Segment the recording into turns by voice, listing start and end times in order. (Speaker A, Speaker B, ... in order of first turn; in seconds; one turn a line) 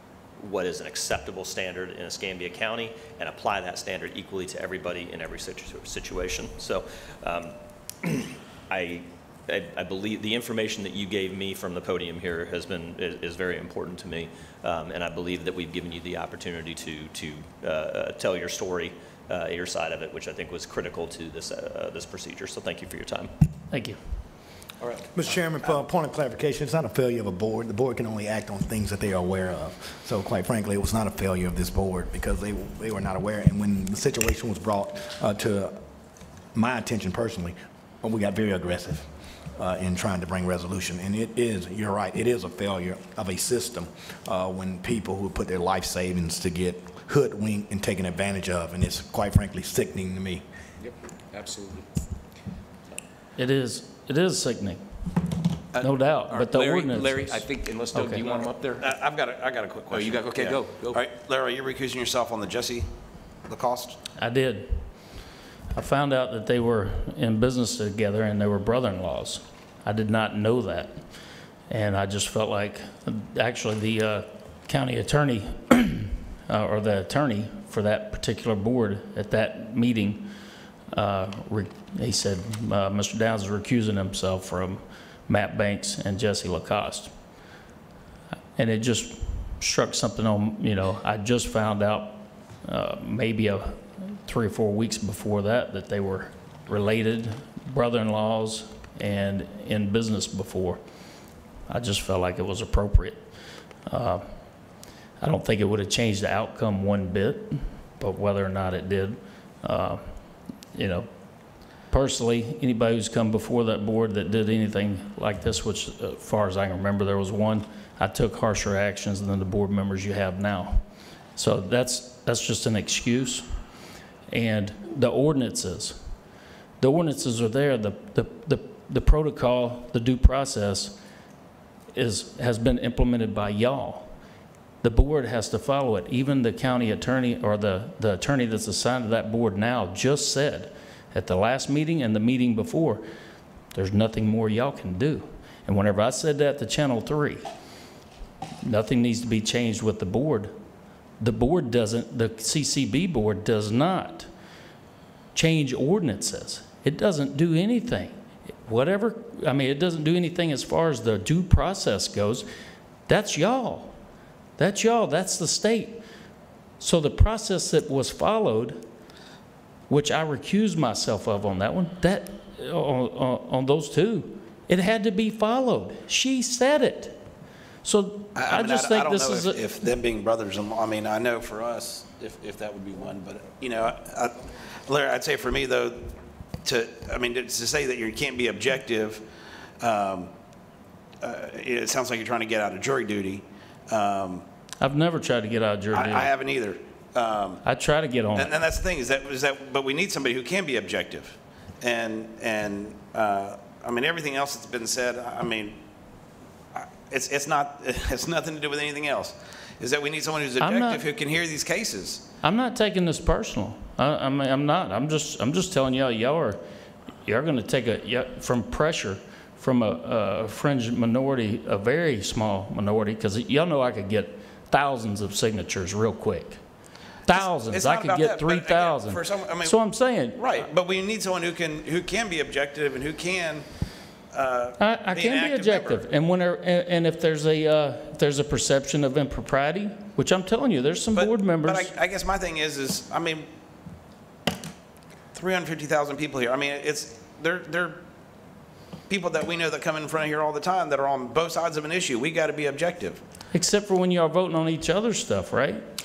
Speaker A: 0.4-23.3
Speaker B: 23.7-24.0
Speaker C: 25.1-35.8
Speaker C: 36.5-50.4
Speaker D: 50.8-51.9
Speaker B: 53.4-54.9
Speaker B: 55.8-58.2
Speaker D: 56.3-58.9
Speaker E: 58.8-62.9
Speaker D: 59.9-61.0
Speaker E: 63.5-64.0
Speaker B: 64.2-65.0
Speaker B: 65.7-71.1
Speaker B: 71.7-80.3
Speaker B: 80.9-87.1
Speaker B: 88.6-100.8
Speaker B: 101.7-103.3
Speaker B: 103.9-104.3
Speaker B: 105.2-111.1
Speaker B: 111.9-120.8
Speaker B: 121.4-123.5
Speaker B: 124.3-126.0
Speaker B: 126.8-131.0
Speaker B: 131.9-134.1
Speaker B: 134.8-143.0
Speaker B: 143.7-147.4
Speaker B: 148.6-150.6
Speaker B: 151.2-154.3
Speaker B: 155.3-162.5
Speaker B: 163.1-164.0
Speaker B: 164.6-166.0
Speaker B: 166.8-168.8
Speaker B: 169.9-177.2
Speaker B: 177.8-179.6
Speaker E: 178.3-189.3
Speaker E: 189.8-190.3
Speaker E: 191.2-194.5
Speaker B: 194.8-196.3
Speaker E: 195.9-197.6
Speaker B: 197.6-198.6
Speaker E: 198.3-205.8
Speaker E: 206.7-212.2
Speaker B: 210.6-211.0
Speaker B: 212.4-216.6
Speaker B: 217.2-226.6
Speaker B: 227.3-230.7
Speaker E: 227.3-233.7
Speaker E: 234.3-236.1
Speaker B: 234.8-241.9
Speaker E: 241.1-243.5
Speaker E: 245.3-248.0
Speaker E: 249.1-253.2
Speaker B: 253.5-255.8